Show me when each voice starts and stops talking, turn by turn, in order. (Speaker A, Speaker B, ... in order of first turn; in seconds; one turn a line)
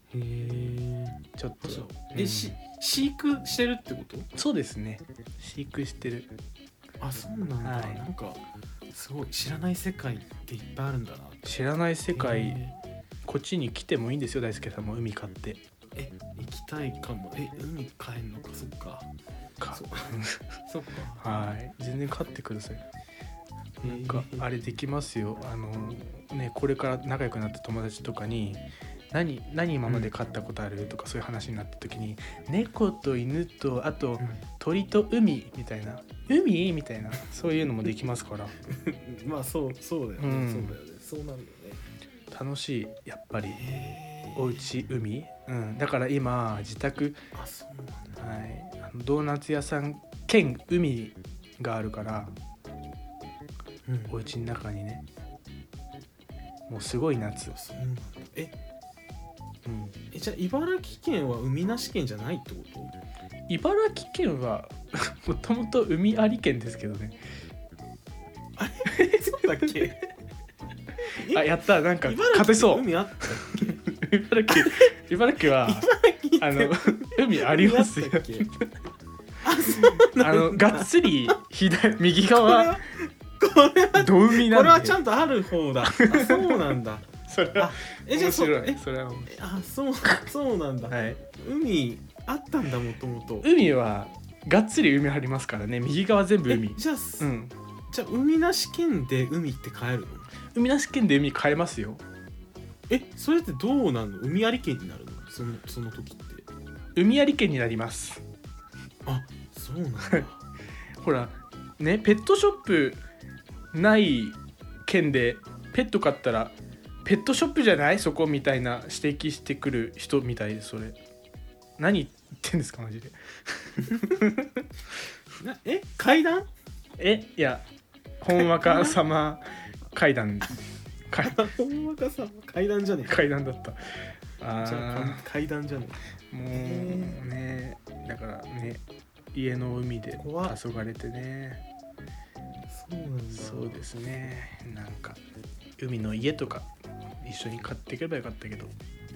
Speaker A: 0.1-4.3
Speaker B: 1.4-2.5
Speaker B: 4.3-6.3
Speaker A: 7.0-8.4
Speaker B: 7.6-8.0
Speaker A: 8.9-11.5
Speaker B: 11.4-12.6
Speaker A: 12.1-12.8
Speaker B: 13.2-15.6
Speaker A: 15.9-19.1
Speaker B: 19.6-20.4
Speaker A: 19.7-21.2
Speaker B: 21.2-22.8
Speaker B: 23.8-38.6
Speaker A: 23.8-24.5
Speaker A: 29.9-30.1
Speaker A: 38.7-41.8
Speaker B: 40.2-40.8
Speaker B: 42.3-43.6
Speaker A: 43.5-44.7
Speaker B: 44.4-47.2
Speaker A: 47.3-48.2
Speaker B: 48.2-52.3
Speaker A: 53.9-54.1
Speaker B: 54.1-55.0
Speaker B: 56.7-57.5
Speaker A: 57.5-58.5
Speaker B: 59.6-59.9
Speaker A: 60.1-62.9
Speaker B: 63.5-67.2
Speaker A: 68.6-70.0
Speaker A: 71.1-73.9
Speaker B: 71.3-78.7
Speaker A: 74.5-74.9
Speaker A: 75.5-78.5
Speaker A: 79.4-81.3
Speaker B: 79.7-82.8
Speaker A: 82.3-93.5
Speaker B: 83.9-85.0
Speaker B: 85.9-86.6
Speaker B: 87.3-89.4
Speaker B: 90.9-91.2
Speaker B: 93.4-97.5
Speaker A: 96.5-97.3
Speaker A: 97.9-100.3
Speaker B: 100.5-102.0
Speaker A: 102.9-106.4
Speaker B: 107.0-108.2
Speaker A: 109.0-110.3
Speaker B: 111.0-113.0
Speaker B: 113.7-121.0
Speaker B: 121.8-124.6
Speaker A: 125.4-126.5
Speaker B: 127.0-127.7
Speaker B: 128.2-131.4
Speaker A: 128.3-129.0
Speaker A: 131.2-133.2
Speaker B: 133.1-135.2
Speaker A: 134.6-136.0
Speaker B: 136.3-138.8
Speaker A: 136.5-137.2
Speaker B: 139.3-141.6
Speaker A: 140.2-140.6
Speaker A: 142.7-143.9
Speaker B: 143.3-145.2
Speaker B: 145.8-146.7
Speaker B: 147.2-148.7